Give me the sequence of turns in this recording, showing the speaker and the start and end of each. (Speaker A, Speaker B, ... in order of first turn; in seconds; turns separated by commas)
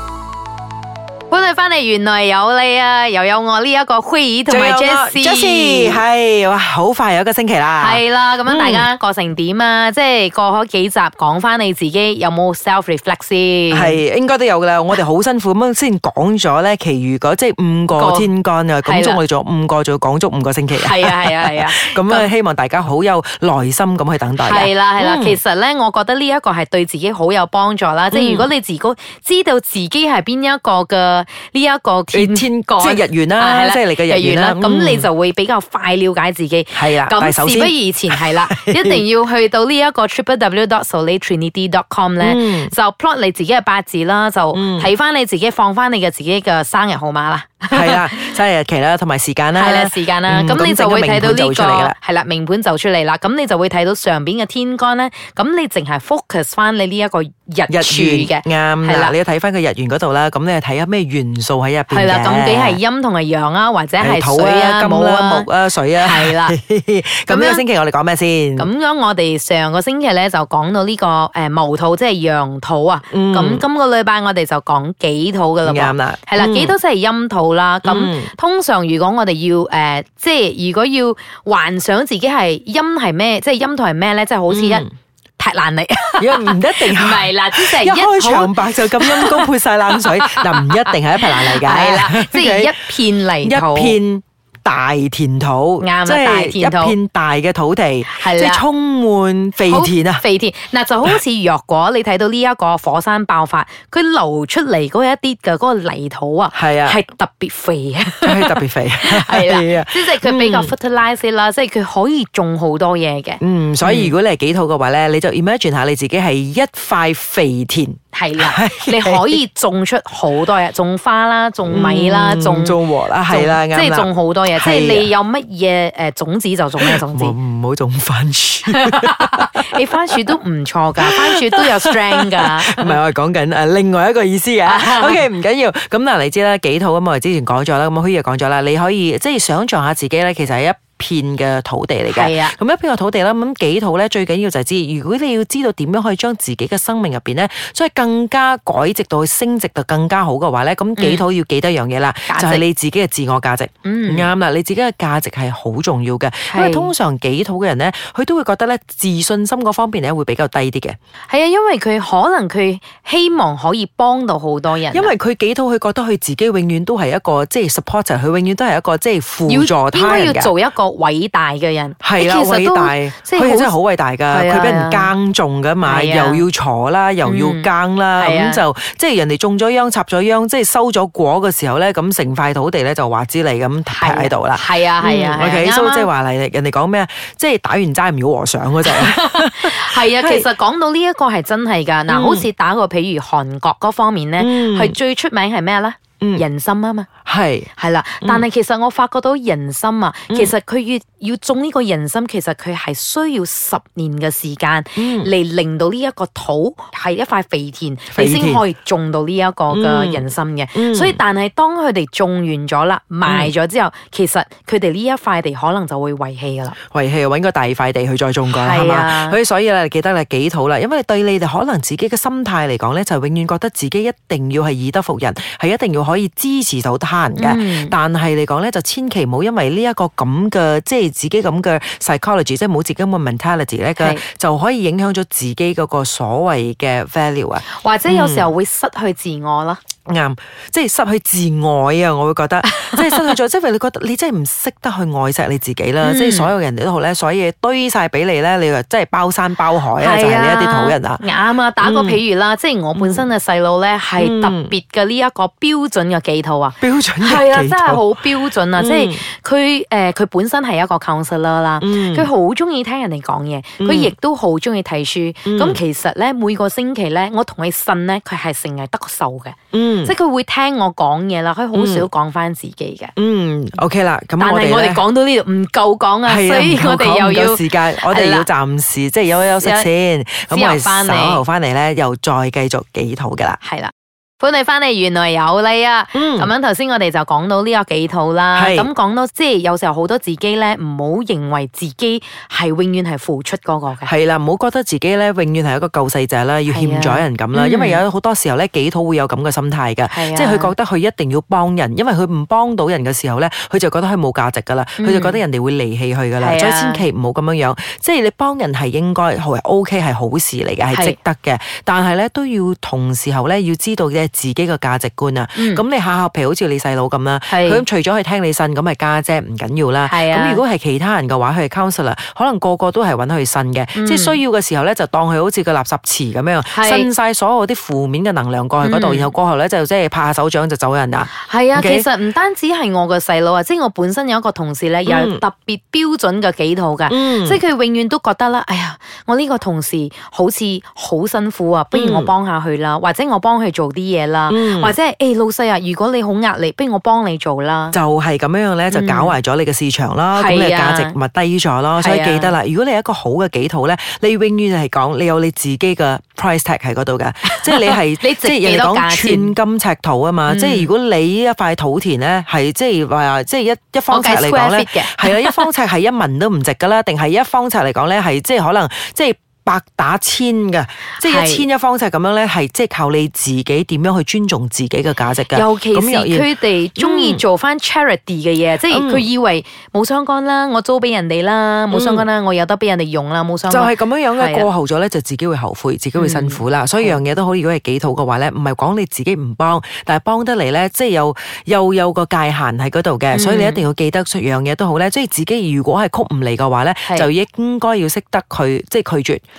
Speaker A: 1.3-6.0, Speaker B: 4.5-8.9, Speaker A: 7.8-14.0, Speaker B: 13.7-25.4, Speaker A: 17.9-18.3, Speaker A: 18.8-19.2, Speaker A: 20.7-22.3, Speaker A: 24.4-48.4, Speaker B: 28.1-28.5, Speaker B: 32.1-35.1, Speaker B: 36.7-39.0, Speaker B: 42.2-42.7, Speaker B: 44.5-44.9, Speaker B: 47.7-51.9, Speaker A: 49.5-59.1, Speaker B: 57.7-62.8, Speaker A: 61.9-66.5, Speaker B: 64.0-68.7, Speaker A: 67.3-67.6, Speaker A: 68.6-84.8, Speaker B: 73.1-73.6, Speaker B: 75.7-76.7, Speaker B: 77.8-78.3, Speaker B: 84.5-84.9, Speaker A: 85.4-94.0, Speaker B: 86.2-92.8, Speaker B: 93.4-100.2, Speaker A: 95.8-97.0, Speaker A: 98.1-98.6, Speaker A: 99.7-114.1, Speaker B: 106.5-107.0, Speaker B: 108.2-110.7, Speaker B: 113.4-119.3, Speaker A: 118.1-127.3, Speaker B: 121.7-125.1, Speaker B: 126.8-129.7, Speaker A: 128.7-133.0, Speaker B: 131.0-160.9, Speaker A: 134.7-135.2, Speaker A: 142.1-142.6, Speaker A: 151.0-151.2, Speaker A: 152.3-152.6, Speaker A: 153.8-154.3, Speaker A: 156.5-156.9, Speaker A: 161.3-165.1, Speaker B: 164.9-170.5, Speaker A: 169.5-173.7, Speaker B: 172.0-190.5, Speaker A: 174.3-175.1, Speaker A: 175.8-176.4, Speaker A: 177.2-178.6, Speaker A: 183.9-186.1, Speaker A: 188.9-197.1, Speaker B: 192.1-192.4, Speaker B: 194.4-194.9, Speaker B: 197.2-197.7, Speaker A: 197.8-216.8, Speaker B: 205.0-205.3, Speaker B: 208.1-208.6, Speaker B: 209.7-211.2, Speaker B: 216.9-238.5, Speaker A: 218.5-219.4, Speaker A: 227.3-227.9, Speaker A: 237.7-239.8, Speaker B: 240.1-251.2, Speaker A: 242.7-243.3, Speaker A: 246.0-246.5, Speaker A: 250.0-273.1, Speaker B: 251.8-252.2, Speaker B: 252.9-253.2, Speaker B: 254.2-254.7, Speaker B: 256.8-258.2, Speaker B: 258.8-259.2, Speaker B: 261.8-262.3, Speaker B: 263.8-264.1, Speaker B: 265.4-265.8, Speaker B: 269.7-270.1, Speaker B: 271.7-272.1, Speaker B: 273.1-275.0, Speaker A: 274.4-278.5, Speaker B: 276.2-283.6, Speaker A: 279.6-279.9, Speaker A: 280.5-281.4, Speaker A: 283.6-294.1, Speaker B: 286.1-286.5, Speaker B: 288.5-288.9, Speaker B: 294.1-332.1, Speaker A: 296.7-298.0, Speaker A: 300.1-300.7, Speaker A: 305.0-305.4, Speaker A: 306.4-307.0, Speaker A: 315.6-315.8, Speaker A: 317.5-317.8, Speaker A: 320.1-320.6, Speaker A: 323.9-324.4, Speaker A: 326.7-327.1, Speaker A: 328.8-329.3, Speaker A: 331.4-348.0, Speaker B: 335.1-335.4, Speaker B: 337.1-337.6, Speaker B: 341.9-342.3, Speaker B: 344.5-344.9, Speaker B: 347.9-377.4, Speaker A: 348.9-349.4, Speaker A: 350.3-351.1, Speaker A: 352.0-352.5, Speaker A: 357.5-359.6, Speaker A: 360.5-360.9, Speaker A: 364.1-365.7, Speaker A: 371.2-371.6, Speaker A: 375.5-384.7, Speaker B: 378.9-379.2, Speaker B: 381.9-382.2, Speaker B: 383.7-399.4, Speaker A: 386.1-387.2, Speaker A: 393.3-393.8